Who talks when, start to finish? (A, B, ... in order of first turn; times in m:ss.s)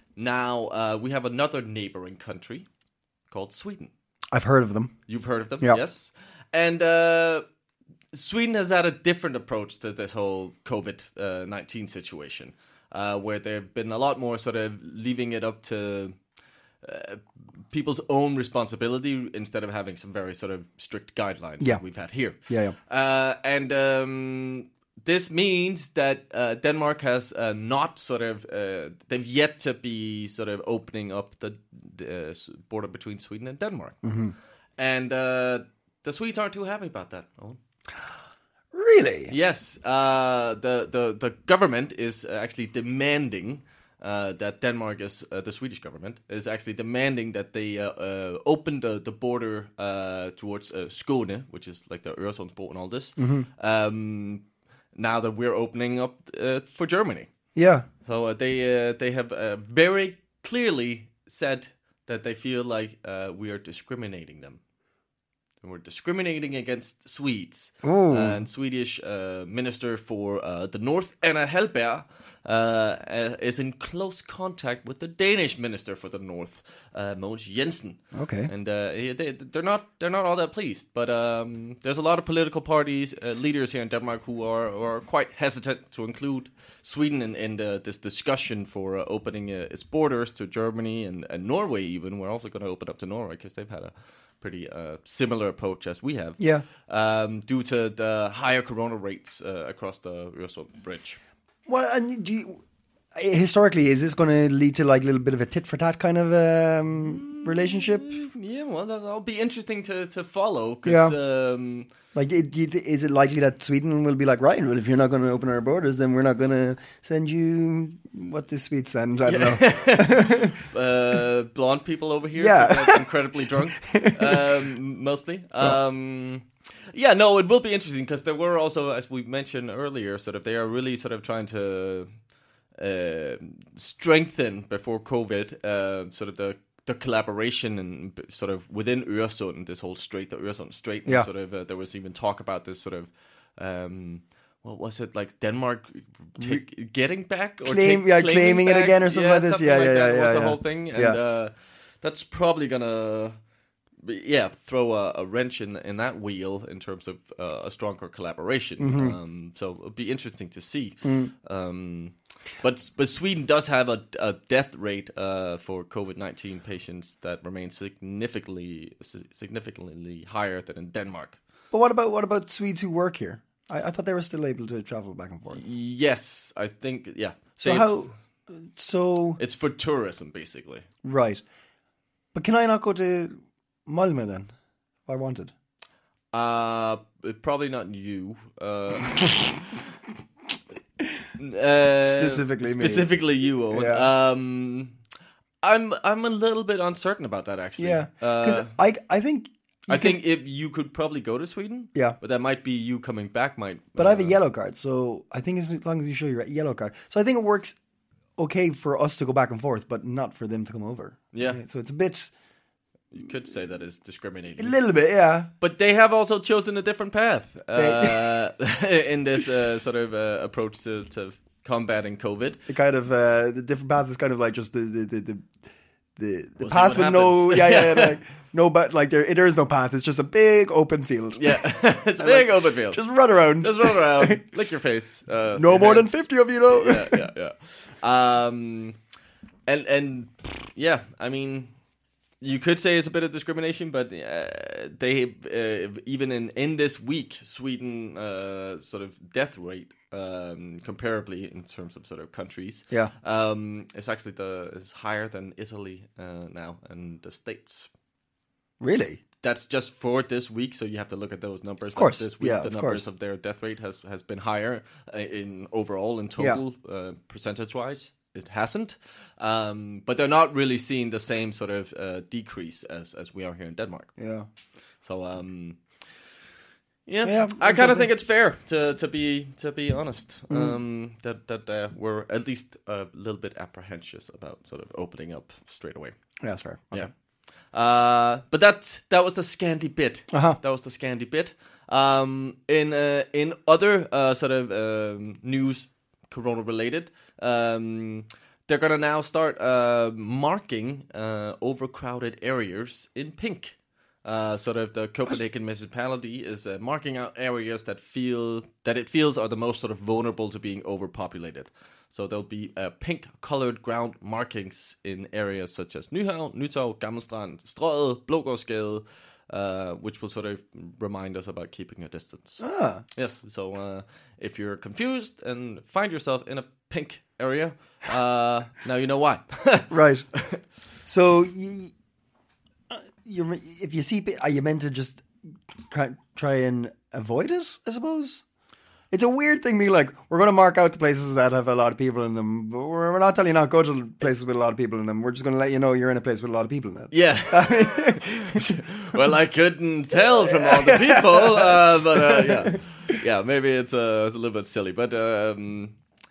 0:00.2-0:02.7 A
0:03.3-0:03.9 A
0:04.3-0:05.0 B
0:05.1-0:07.4 A
0:08.1-0:16.2 A
0:16.8-0:34.0 A
0:22.5-0:22.8 B
0:34.0-0:34.4 B
0:34.8-0:37.6 A
0:38.7-0:39.3 B
0:39.3-0:57.3 A
0:53.2-0:53.5 B
0:57.6-0:57.9 B
0:58.0-1:04.6 A
1:05.6-1:41.2 A
1:07.8-1:08.4 B
1:18.1-1:18.5 B
1:36.4-1:36.6 B
1:41.7-1:42.6 B
1:43.2-1:48.1 B
1:47.0-1:51.9 A
1:50.8-1:51.2 B
1:52.2-2:00.6 B
1:59.3-2:12.2 A
2:02.3-2:04.5 B
2:12.8-2:33.4 A
2:26.4-2:26.6 B
2:27.6-2:31.2 B
2:34.0-2:51.4 A
2:38.8-2:39.2 B
2:41.0-2:41.3 B
2:51.7-2:55.7 B
2:55.5-2:58.1 A
2:57.6-2:59.4 B
2:59.4-3:00.9 A
3:01.0-3:01.4 B
3:02.3-3:04.5 B
3:05.1-3:05.5 B
3:06.3-3:09.8 A
3:11.4-3:15.0 A
3:12.0-3:13.2 B
3:13.7-3:14.1 B
3:15.6-3:18.7 A
3:17.8-3:20.2 B
3:19.9-3:24.4 A
3:24.0-3:27.8 B
3:28.4-3:32.3 B
3:31.3-3:31.6 A
3:33.1-3:34.8 A
3:34.6-3:35.5 B
3:35.6-3:42.6 A
3:37.7-3:38.4 B
3:42.7-3:45.5 B
3:46.2-3:54.4 B
3:46.6-3:48.2 A
3:51.4-3:56.1 A
3:55.5-3:57.3 B
3:56.7-3:59.0 A
3:59.7-4:01.7 A
4:02.4-4:17.9 A
4:18.8-4:19.2 B
4:19.4-4:34.1 A
4:21.9-4:23.1 B
4:34.2-4:34.5 B
4:35.0-4:35.8 A
4:37.1-4:46.2 A
4:37.2-4:38.1 B
4:40.5-4:40.8 B
4:46.4-4:47.1 B
4:47.7-5:22.6 A
4:50.3-4:50.6 B
5:22.6-5:23.0 B
5:23.2-5:30.6 A
5:29.9-5:30.3 B
5:31.1-5:31.9 B
5:32.9-5:35.3 B
5:35.9-5:38.4 B
5:39.1-5:48.8 B
5:47.1-5:56.0 A
5:50.1-5:52.8 B